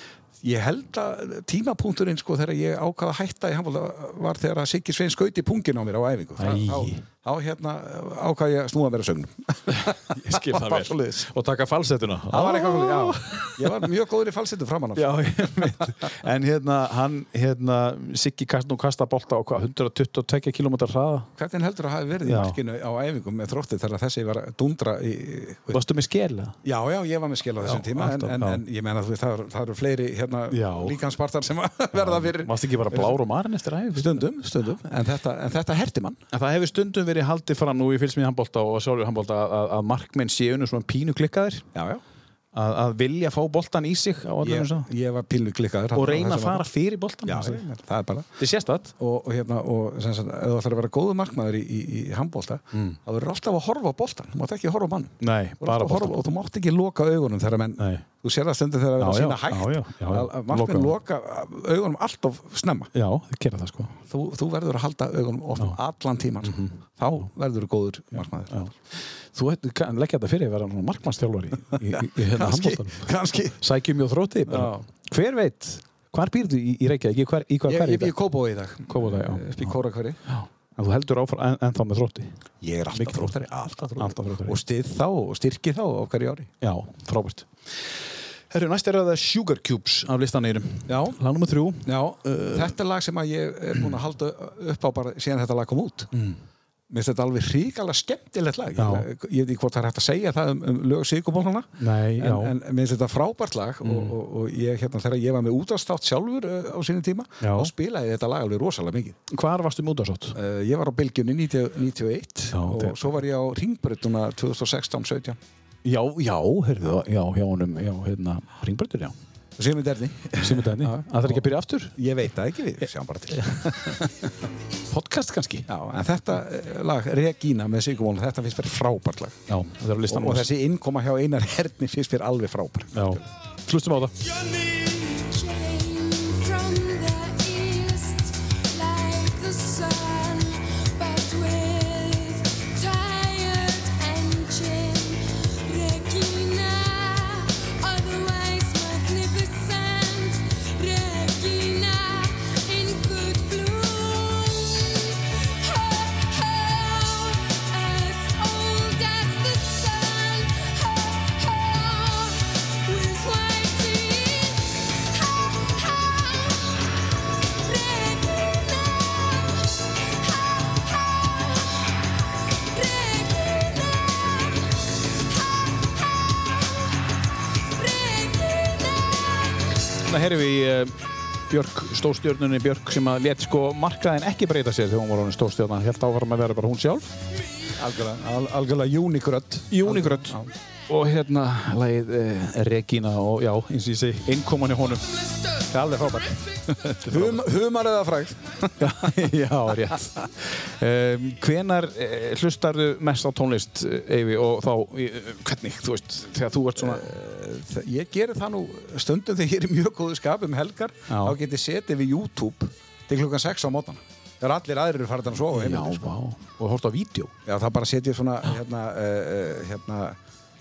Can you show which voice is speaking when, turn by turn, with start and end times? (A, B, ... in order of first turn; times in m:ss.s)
0:00.4-0:11.3 A
0:06.4-0:07.0 B
0:09.7-0:13.9 B
0:12.3-0:15.9 A
0:14.9-0:21.3 B
0:21.4-0:25.8 A
0:22.2-0:22.6 B
0:25.7-0:26.6 B
0:26.6-0:33.2 A
0:27.6-0:28.6 B
0:30.5-0:31.0 B
0:31.9-0:34.3 B
0:33.9-0:36.2 A
0:36.3-0:41.7 B
0:41.7-0:42.0 A
0:42.5-0:44.9 B
0:44.4-0:46.7 A
0:45.9-0:47.6 B
0:47.2-0:48.3 A
0:48.4-0:48.9 B
0:49.0-1:02.9 A
0:52.7-0:53.0 B
0:55.2-0:56.2 B
0:57.8-0:58.0 B
0:59.0-1:00.9 B
1:02.9-1:03.9 B
1:04.0-1:08.6 A
1:06.4-1:06.8 B
1:08.2-1:18.1 B
1:11.7-1:13.6 A
1:14.5-1:14.8 A
1:17.6-1:20.2 A
1:18.9-1:19.7 B
1:20.3-1:22.4 B
1:22.6-1:26.5 A
1:22.9-1:24.6 B
1:26.6-1:32.8 B
1:30.9-1:31.2 A
1:31.8-1:36.1 A
1:36.1-1:36.4 B
1:36.9-1:49.2 A
1:38.8-1:39.1 B
1:41.8-1:42.5 B
1:43.8-1:44.1 B
1:47.4-1:47.7 B
1:49.3-1:50.4 B
1:50.3-1:55.4 A
1:52.5-1:53.0 B
1:55.8-1:59.1 B
1:59.6-2:04.2 A
2:00.4-2:02.0 B
2:03.4-2:03.9 B
2:04.9-2:05.7 B
2:05.7-2:09.4 A
2:09.5-2:10.5 B
2:10.1-2:13.2 A
2:12.9-2:14.2 B
2:14.4-2:47.0 C
2:47.5-2:52.0 C
2:52.5-2:57.0 C
2:57.5-3:00.0 C
3:00.0-3:07.1 B
3:07.8-3:10.5 A
3:09.7-3:15.1 B
3:15.7-3:19.1 A
3:17.0-3:17.4 B
3:18.8-3:27.1 B
3:26.8-3:36.1 A
3:31.1-3:31.4 B
3:35.5-3:37.3 B
3:37.4-3:40.2 A